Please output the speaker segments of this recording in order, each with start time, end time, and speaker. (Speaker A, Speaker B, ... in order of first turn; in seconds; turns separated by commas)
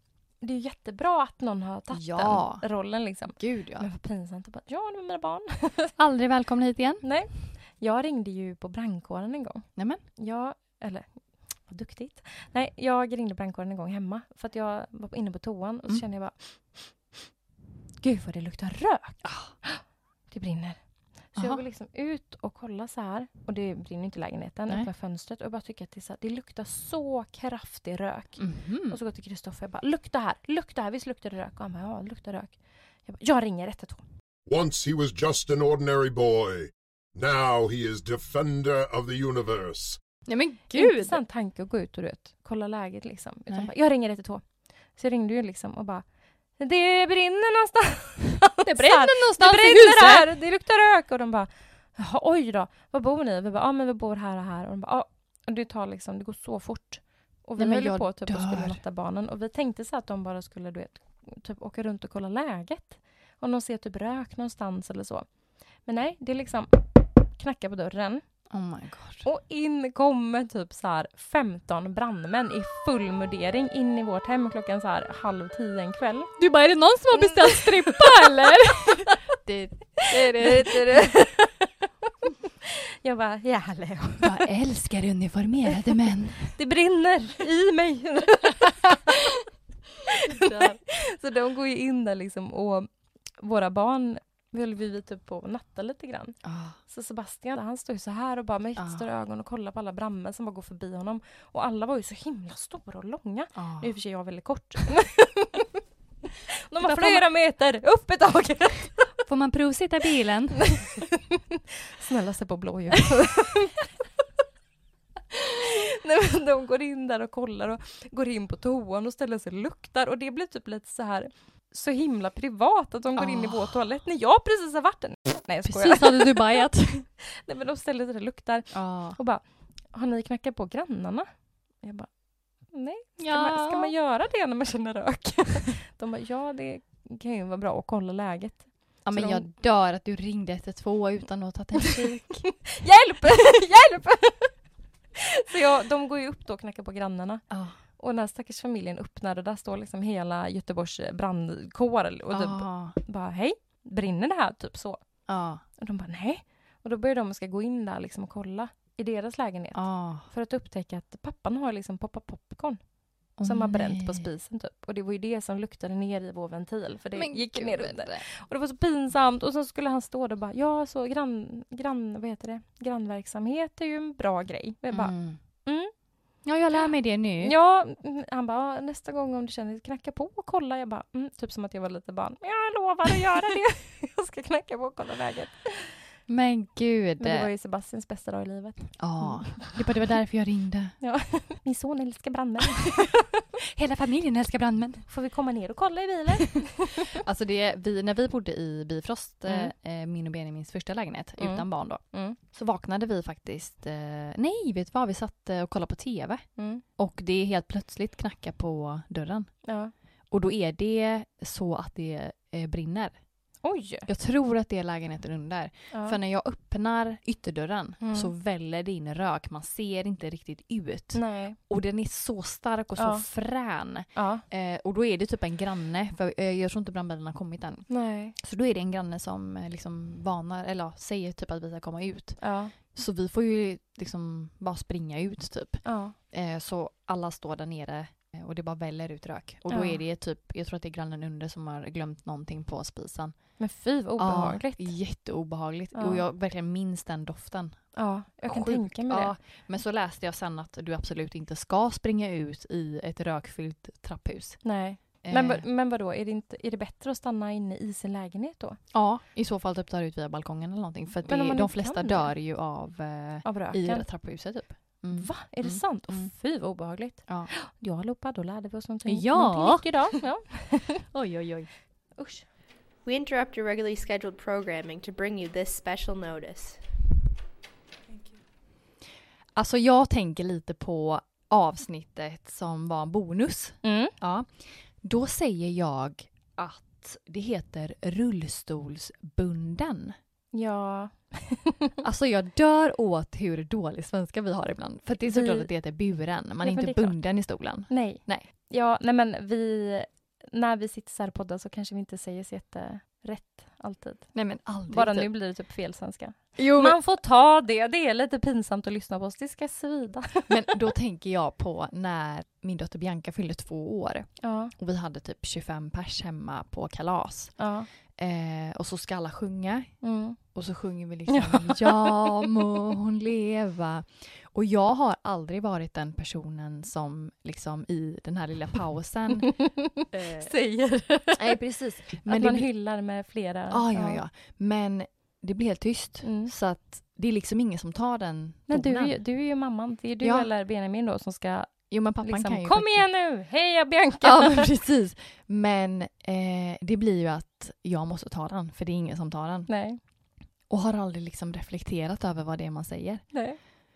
Speaker A: 0.4-6.0, Speaker B: 1.9-2.7, Speaker B: 3.3-3.9, Speaker B: 6.0-7.1, Speaker A: 7.0-16.4, Speaker B: 9.8-10.0, Speaker A: 18.0-34.0, Speaker B: 19.2-19.5, Speaker B: 21.4-21.6, Speaker B: 28.4-29.0, Speaker C: 34.5-40.0, Speaker B: 40.3-41.2, Speaker A: 40.7-46.0, Speaker A: 46.6-65.3, Speaker B: 48.6-50.3, Speaker B: 57.6-58.8, Speaker A: 65.8-68.2, Speaker B: 68.5-69.2, Speaker A: 69.2-76.3, Speaker B: 76.4-81.1, Speaker A: 77.1-79.2, Speaker A: 80.0-81.7, Speaker A: 83.0-84.4, Speaker B: 84.2-86.5, Speaker A: 86.5-89.4, Speaker A: 90.1-105.7, Speaker B: 90.3-90.8, Speaker B: 96.4-96.8, Speaker B: 98.8-99.0, Speaker B: 103.5-103.9, Speaker A: 106.7-109.2, Speaker B: 106.8-107.2, Speaker B: 109.2-111.0, Speaker A: 110.7-113.8, Speaker A: 115.3-126.7, Speaker B: 123.2-123.7, Speaker B: 125.6-127.1, Speaker A: 127.3-132.1, Speaker B: 128.7-129.2, Speaker A: 132.7-139.5, Speaker B: 133.2-133.9, Speaker B: 139.0-142.5, Speaker A: 142.7-144.6, Speaker A: 145.2-147.4, Speaker B: 147.5-147.8, Speaker A: 148.0-155.0, Speaker B: 152.3-153.0, Speaker B: 155.3-155.6, Speaker A: 155.8-162.8, Speaker B: 159.8-160.3, Speaker B: 163.4-164.3, Speaker A: 163.4-175.9, Speaker B: 167.2-168.3, Speaker B: 174.9-175.4, Speaker B: 176.4-177.6, Speaker A: 177.4-185.9, Speaker B: 186.3-187.5, Speaker A: 187.2-189.8, Speaker B: 189.0-190.9, Speaker A: 191.0-193.4, Speaker B: 193.6-195.1, Speaker A: 195.1-197.2, Speaker B: 196.9-209.5, Speaker A: 199.5-199.7, Speaker A: 201.4-202.4, Speaker A: 206.6-206.8, Speaker A: 209.7-209.9, Speaker B: 210.3-213.2, Speaker A: 213.6-214.1, Speaker B: 214.1-243.4, Speaker A: 215.9-216.2, Speaker A: 218.0-218.3, Speaker A: 221.1-221.6, Speaker A: 223.0-223.2, Speaker A: 224.2-224.4, Speaker A: 227.9-228.4, Speaker A: 232.4-232.7, Speaker A: 235.8-236.2, Speaker A: 239.7-240.0, Speaker A: 243.6-244.9, Speaker B: 244.2-247.9, Speaker A: 245.9-246.2, Speaker A: 248.0-249.3, Speaker B: 248.4-255.6, Speaker A: 254.6-258.8, Speaker B: 258.9-266.3, Speaker A: 261.3-262.3, Speaker A: 263.4-264.1, Speaker A: 265.1-271.0, Speaker B: 269.1-269.9, Speaker B: 271.1-271.7, Speaker A: 272.2-272.5, Speaker D: 273.1-276.8, Speaker B: 279.6-290.1, Speaker A: 283.8-284.1, Speaker A: 290.5-291.9, Speaker B: 292.0-298.5, Speaker A: 295.3-295.7, Speaker A: 296.6-297.2, Speaker A: 297.9-310.8, Speaker B: 304.3-305.3, Speaker B: 306.6-307.0, Speaker B: 310.5-329.6, Speaker A: 314.4-314.7, Speaker A: 317.6-317.9, Speaker A: 320.0-320.4, Speaker A: 321.3-322.4, Speaker A: 329.5-331.6, Speaker B: 330.1-330.5, Speaker B: 331.4-332.7, Speaker A: 332.3-334.2, Speaker B: 333.7-339.2, Speaker A: 336.2-336.5, Speaker A: 338.7-344.7, Speaker B: 340.2-340.5, Speaker B: 341.9-343.1, Speaker B: 344.2-349.7, Speaker A: 349.7-350.0, Speaker B: 350.7-353.5, Speaker A: 353.3-353.6